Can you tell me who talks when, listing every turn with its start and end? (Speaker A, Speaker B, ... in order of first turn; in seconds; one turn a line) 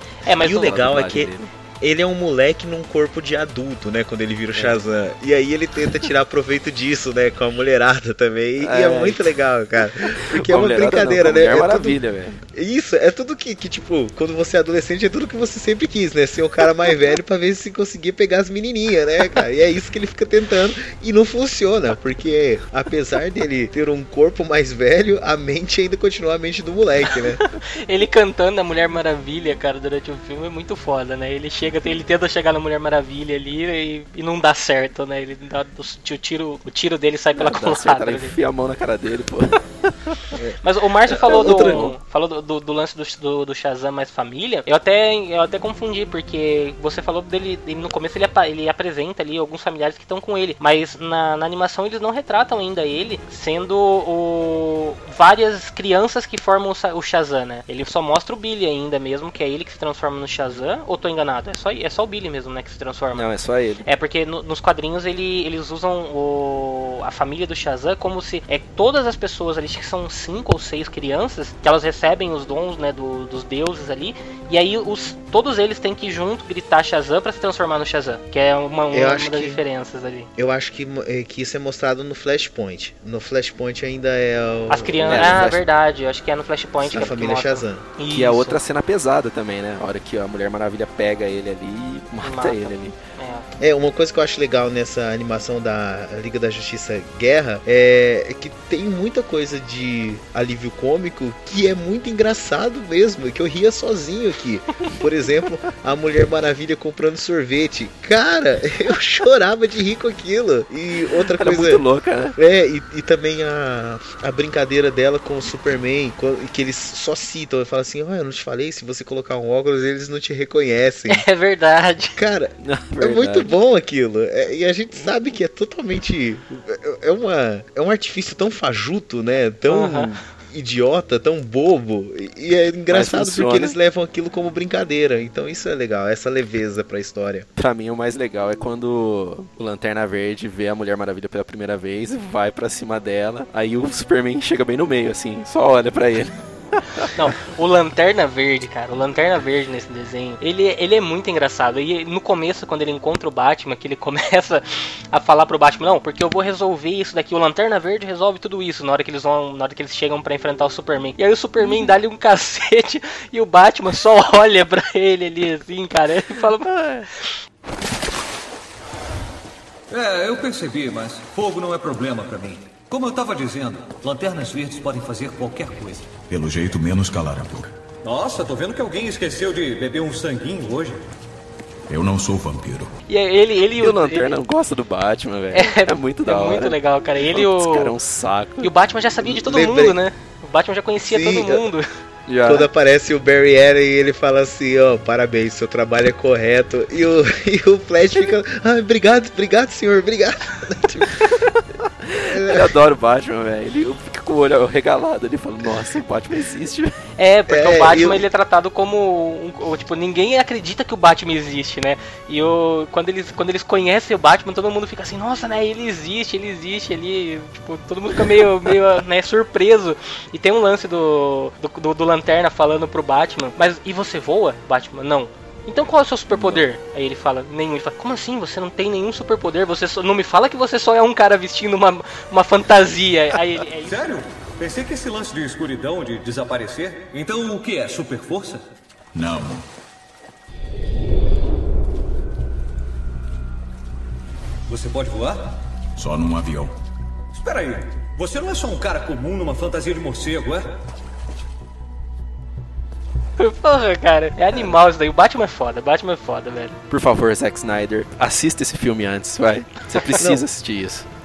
Speaker A: 0.2-0.8
Speaker B: 0.4-12.0
Speaker C: 0.4-1.5
Speaker C: 4.5-4.8
Speaker C: 8.6-9.4
Speaker C: 10.0-12.4
Speaker B: 12.5-27.4
Speaker A: 27.4-38.3
Speaker C: 37.3-40.2
Speaker A: 40.6-63.3
Speaker C: 41.1-42.0
Speaker C: 63.1-63.9
Speaker A: 63.9-80.3
Speaker B: 78.9-79.6
Speaker B: 80.4-85.4
Speaker A: 84.7-88.6
Speaker C: 85.1-85.6
Speaker B: 86.9-87.8
Speaker C: 88.1-93.0
Speaker A: 92.2-93.5
Speaker B: 93.6-111.8
Speaker C: 111.3-112.4
Speaker B: 112.4-121.3
Speaker A: 121.1-122.2
Speaker B: 122.2-137.5
Speaker C: 122.6-123.5
Speaker A: 129.7-130.1
Speaker C: 132.9-133.8
Speaker C: 137.6-147.1
Speaker A: 147.1-167.3
Speaker C: 166.7-167.1
Speaker D: 169.9-176.2
Speaker E: 176.3-177.7
Speaker D: 178.0-181.0
Speaker E: 181.9-182.9
Speaker A: 183.1-184.4
Speaker C: 183.8-188.7
Speaker A: 185.5-187.9
Speaker A: 188.6-191.9
Speaker B: 189.2-190.0
Speaker B: 191.1-191.6
Speaker C: 192.3-192.7
Speaker B: 192.4-201.3
Speaker C: 201.4-207.0
Speaker B: 202.2-202.7
Speaker A: 207.2-234.0
Speaker B: 207.5-208.2
Speaker D: 233.9-238.6
Speaker E: 239.2-239.6
Speaker D: 244.7-245.5
Speaker E: 246.0-246.7
Speaker D: 247.3-250.8
Speaker A: 253.4-256.8
Speaker C: 256.9-261.1
Speaker B: 260.2-260.4